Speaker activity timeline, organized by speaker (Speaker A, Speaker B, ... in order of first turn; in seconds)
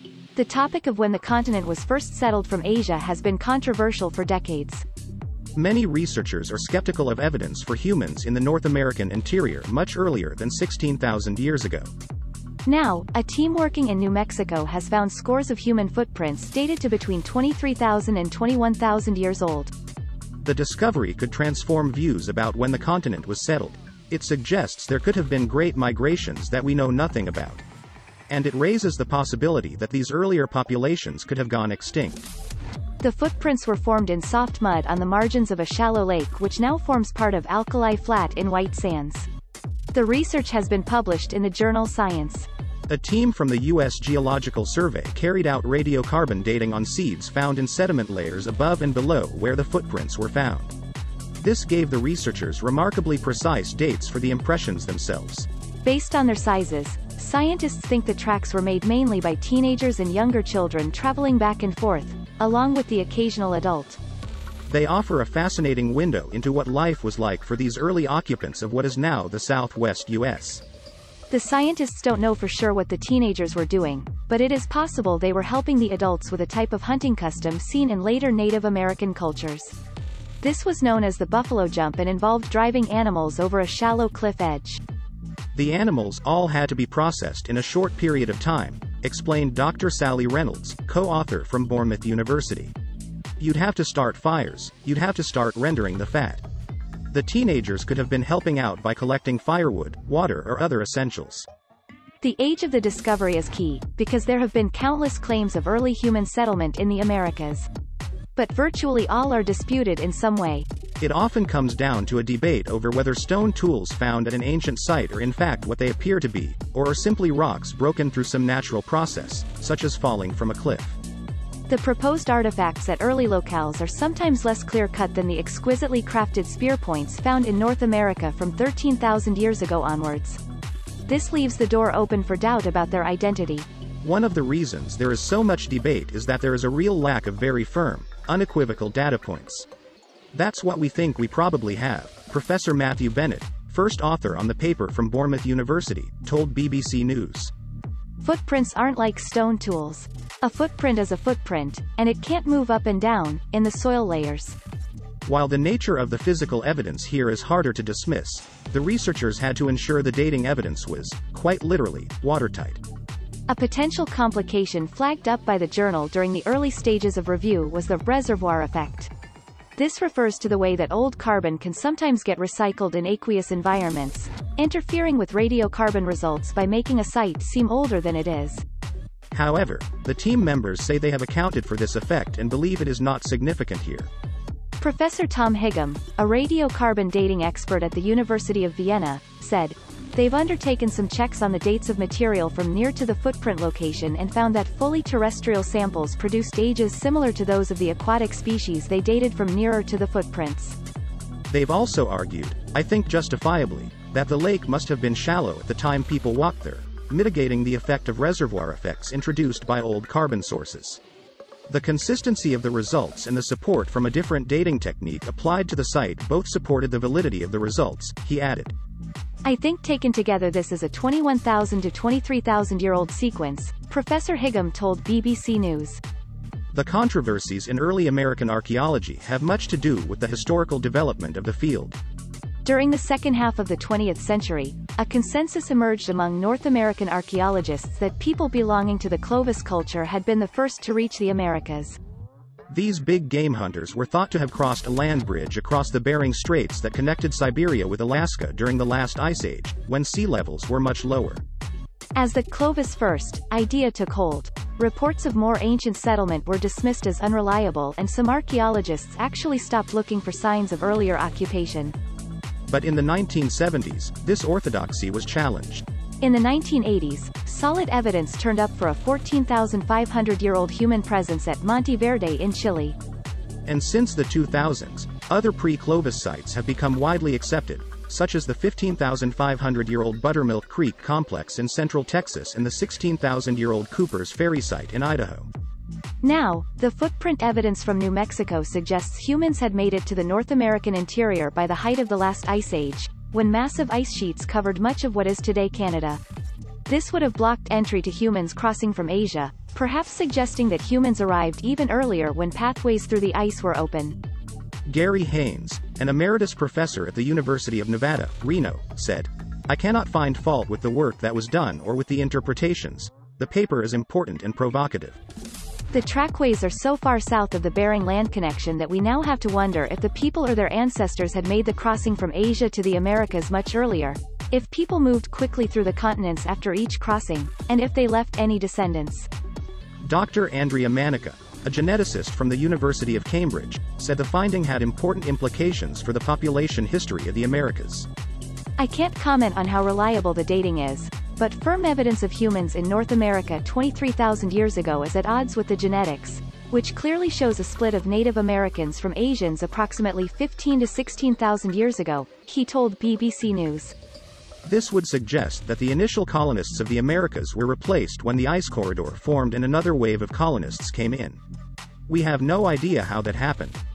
Speaker A: 0.3-4.8, 12.7-19.7, 33.0-39.3, 39.9-42.5, 55.8-64.0, 71.3-79.8, 80.4-84.8, 102.2-107.7, 108.3-110.7, 121.7-130.4, 131.1-133.7, 148.2-154.6, 163.5-169.1, 169.8-178.6, 184.8-200.8, 219.4-226.0, 232.6-242.0, 252.2-261.9, 266.2-273.0, 286.2-296.2, 296.9-304.2, 315.9-329.3, 338.8-353.9
Speaker B: 5.5-11.9, 20.4-27.6, 28.3-32.2, 42.9-50.7, 51.4-55.5, 64.7-70.6, 85.5-92.7, 93.4-96.4, 97.1-101.5, 111.0-121.0, 134.0-139.7, 140.3-147.5, 155.2-162.8, 179.3-184.1, 201.5-211.0, 211.7-218.7, 226.7-232.0, 242.7-251.4, 262.7-265.8, 273.6-285.5, 304.9-315.2, 330.0-338.1, 354.6-361.4, 362.1-363.8